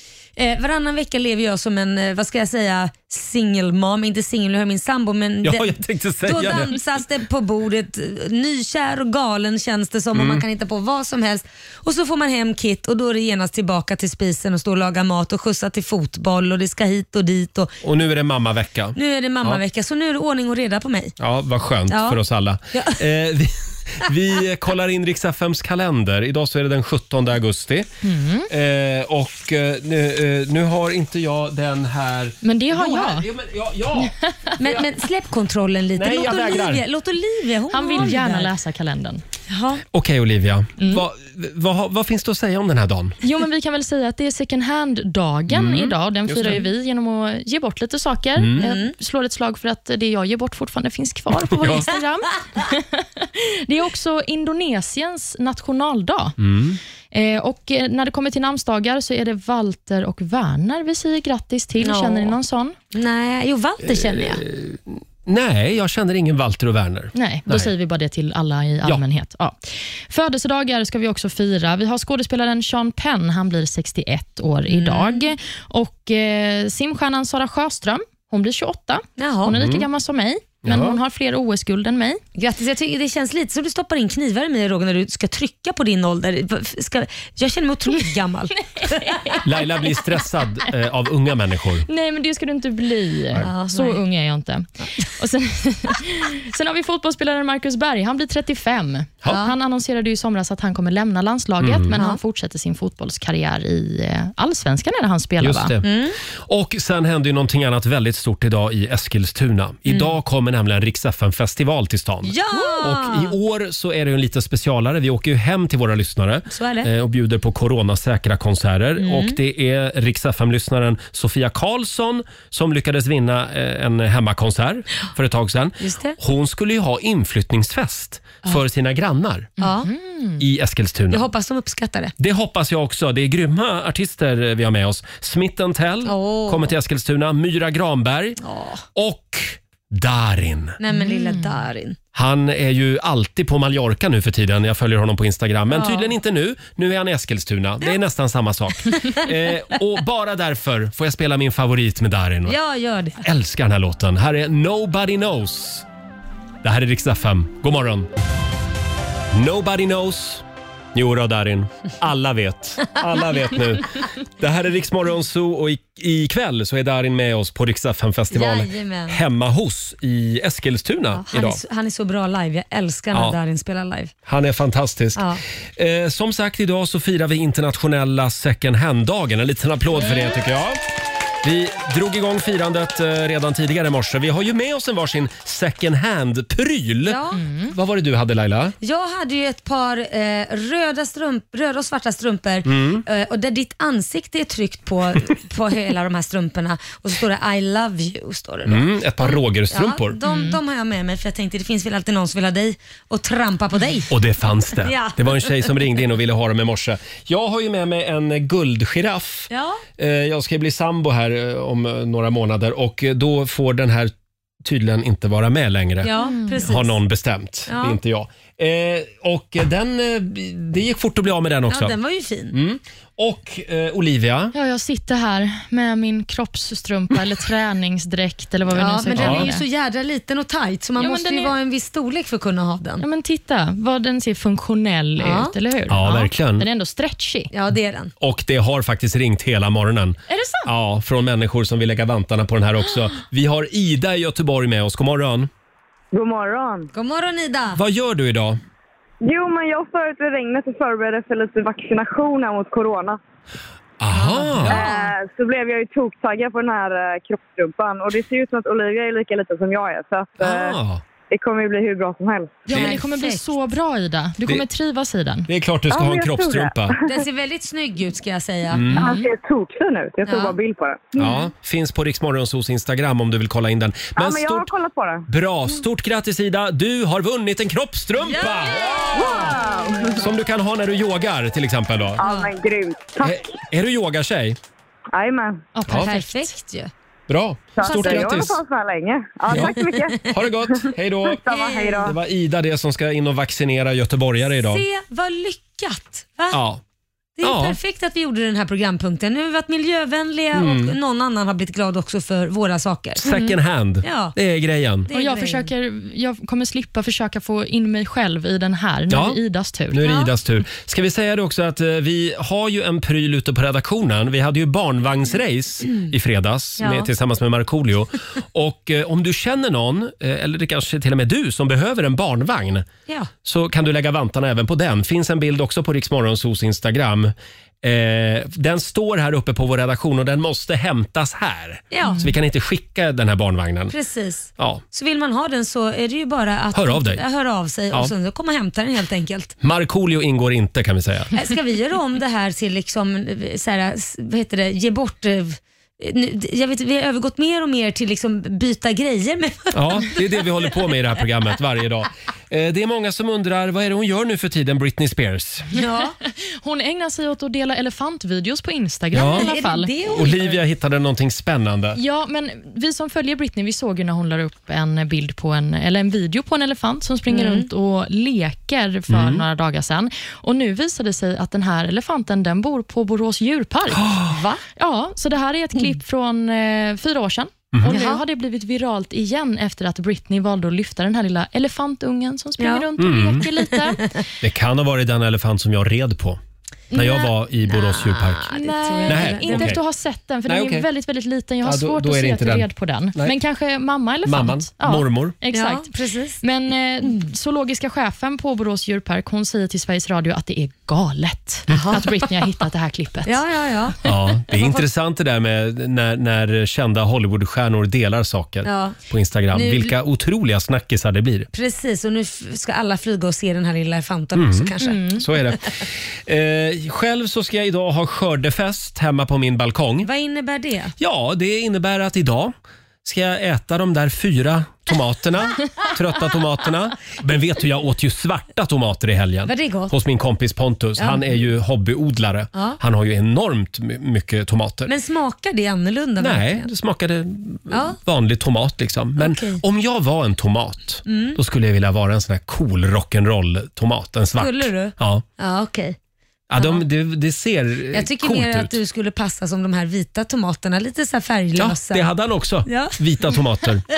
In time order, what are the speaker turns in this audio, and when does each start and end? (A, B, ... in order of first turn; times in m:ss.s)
0:00.4-0:17.7 A
0:05.4-0:06.8 B
0:10.1-0:10.4 B
0:17.8-0:19.6 B
0:19.0-0:21.1 A
0:21.2-0:27.9 B
0:21.9-0:22.2 A
0:22.7-0:23.0 A
0:28.0-0:28.5 C
0:28.5-0:34.8 B
0:32.4-0:33.2 C
0:34.0-0:34.6 C
0:34.6-0:38.5 A
0:35.9-0:36.8 B
0:37.7-0:39.2 C
0:39.5-0:39.8 A
0:39.9-0:43.2 B
0:40.8-0:41.0 C
0:43.2-0:56.4 C
0:45.5-0:46.6 B
0:48.4-0:48.6 B
0:48.6-0:48.9 A
0:51.5-0:51.8 B
0:56.4-0:56.8 B
0:57.1-1:02.7 C
1:01.8-1:02.3 A
1:02.9-1:04.4 A
1:03.8-1:07.7 B
1:07.1-1:09.6 C
1:10.1-1:22.2 C
1:14.7-1:15.2 A
1:19.2-1:19.5 A
1:19.5-1:19.8 B
1:20.6-1:21.0 B
1:22.4-1:29.4 A
1:28.8-1:29.4 C
1:29.4-1:31.8 B
1:31.9-1:45.7 C
1:33.4-1:34.0 A
1:39.3-1:39.5 A
1:41.6-1:42.0 B
1:45.4-2:09.5 B
1:45.8-1:46.2 A
1:52.2-1:53.3 A
1:56.5-1:56.9 A
1:59.0-1:59.4 A
2:05.8-2:06.2 A
2:09.6-2:09.9 A
2:09.6-2:10.4 C
2:10.4-2:11.2 B
2:11.1-2:12.1 A
2:12.2-2:18.4 B
2:16.0-2:16.7 A
2:18.4-2:18.8 A
2:19.0-2:20.8 B
2:20.8-2:22.0 A
2:20.9-2:21.5 C
2:22.1-2:32.6 B
2:25.7-2:26.1 A
2:32.5-2:33.2 A
2:33.2-2:35.8 B
2:36.6-2:38.1 B
2:39.3-2:51.6 B
2:48.3-2:49.2 A
2:51.1-2:54.1 A
2:54.2-2:55.2 B
2:55.2-2:55.4 A
2:55.8-3:00.8 B
3:01.4-3:07.2 B
3:07.0-3:07.4 A
3:07.4-3:07.7 C
3:07.7-3:08.7 B
3:08.8-3:24.1 A
3:12.6-3:13.0 B
3:18.6-3:20.2 B
3:20.2-3:20.6 C
3:24.1-3:34.1 B
3:24.8-3:25.6 A
3:29.5-3:29.8 A
3:34.6-3:41.9 B
3:36.0-3:36.9 A
3:36.2-3:36.6 C
3:37.7-3:38.0 A
3:41.7-3:42.5 A
3:42.5-3:44.5 B
3:44.5-3:49.6 C
3:48.7-3:53.0 A
3:49.1-3:49.5 B
3:51.0-3:51.5 C
3:53.0-3:57.5 C
3:55.2-3:55.5 A
3:55.9-3:56.6 B
3:57.5-3:58.1 A
3:58.2-4:05.5 B
4:00.3-4:00.7 C
4:06.1-4:06.9 D
4:06.9-4:07.8 A
4:07.7-4:08.6 B
4:09.2-4:13.2 D
4:14.0-4:14.8 B
4:14.1-4:15.1 A
4:14.7-4:20.8 D
4:20.4-4:21.0 B
4:21.3-4:22.6 D
4:22.7-4:25.5 C
4:22.7-4:23.4 A
4:25.5-4:27.0 B
4:25.9-4:27.1 D
4:27.0-4:28.9 A
4:28.7-4:29.1 B
4:28.9-4:29.3 C
4:29.0-4:31.3 D
4:30.2-4:30.6 A
4:31.2-4:34.7 B
4:34.2-4:35.3 D
4:35.3-4:39.5 B
4:38.3-4:39.4 A
4:39.1-4:40.2 D
4:40.2-4:42.2 B
4:42.2-4:43.4 D
4:42.2-4:42.5 A
4:43.2-4:44.6 B
4:45.1-4:45.6 D
4:45.7-4:46.5 C
4:45.9-4:46.9 A
4:47.3-4:48.6 B
4:47.8-4:50.3 D
4:47.8-4:48.4 A
4:49.5-4:54.8 B
4:49.5-4:50.2 A
4:51.2-4:52.1 D
4:51.5-4:52.1 A
4:54.6-4:56.6 A
4:56.5-4:56.8 B
4:57.4-5:03.4 A
4:57.4-4:57.8 B
5:00.5-5:00.9 B
5:03.2-5:05.1 B
5:04.0-5:04.3 A
5:05.1-5:05.7 A
5:05.1-5:10.0 C
5:09.1-5:09.4 B
5:09.9-5:22.9 B
5:10.0-5:10.3 A
5:15.8-5:16.1 A
5:16.8-5:17.1 A
5:23.4-5:33.9 B
5:31.9-5:32.2 A
5:33.9-5:39.5 A
5:34.6-5:34.8 B
5:36.7-5:37.2 B
5:39.6-5:41.4 B
5:41.4-5:50.2 A
5:49.7-5:55.7 B
5:55.7-5:56.1 A
5:56.4-5:59.9 C
5:59.1-5:59.5 B
5:59.2-6:00.6 A
6:00.1-6:02.0 B
6:01.9-6:14.2 C
6:07.3-6:07.7 A
6:09.1-6:09.4 B
6:14.0-6:14.3 B
6:14.3-6:14.6 A
6:14.7-6:24.1 C
6:17.7-6:18.0 B
6:17.9-6:18.2 A
6:22.6-6:22.8 A
6:23.0-6:23.4 B
6:23.7-6:24.2 A
6:24.4-6:26.4 B
6:26.9-6:28.5 B
6:26.9-6:27.2 C
6:27.7-6:29.7 A
6:28.6-6:35.9 C
6:29.0-6:29.8 B
6:30.5-6:30.8 B
6:31.6-6:33.3 B
6:34.2-6:35.4 B
6:35.5-6:36.4 A
6:36.4-6:43.4 C
6:41.7-6:42.0 B
6:41.7-6:42.0 A
6:43.2-6:44.0 A
6:44.0-6:51.5 B
6:44.5-6:44.8 A
6:48.6-6:49.0 A
6:49.5-6:49.9 A
6:51.5-6:55.4 A
6:54.3-7:00.1 B
6:54.8-6:55.2 C
7:00.0-7:00.9 A
7:01.0-7:02.5 B
7:03.0-7:14.9 B
7:09.5-7:09.9 A
7:11.0-7:11.4 A
7:14.8-7:16.7 A
7:16.2-7:25.2 B
7:17.7-7:18.0 A
7:19.2-7:19.6 A
7:21.0-7:21.4 A
7:24.4-7:26.0 A
7:26.5-7:28.8 B
7:26.6-7:26.8 A
7:27.9-7:32.1 A
7:31.5-7:33.8 B
7:32.6-7:33.0 A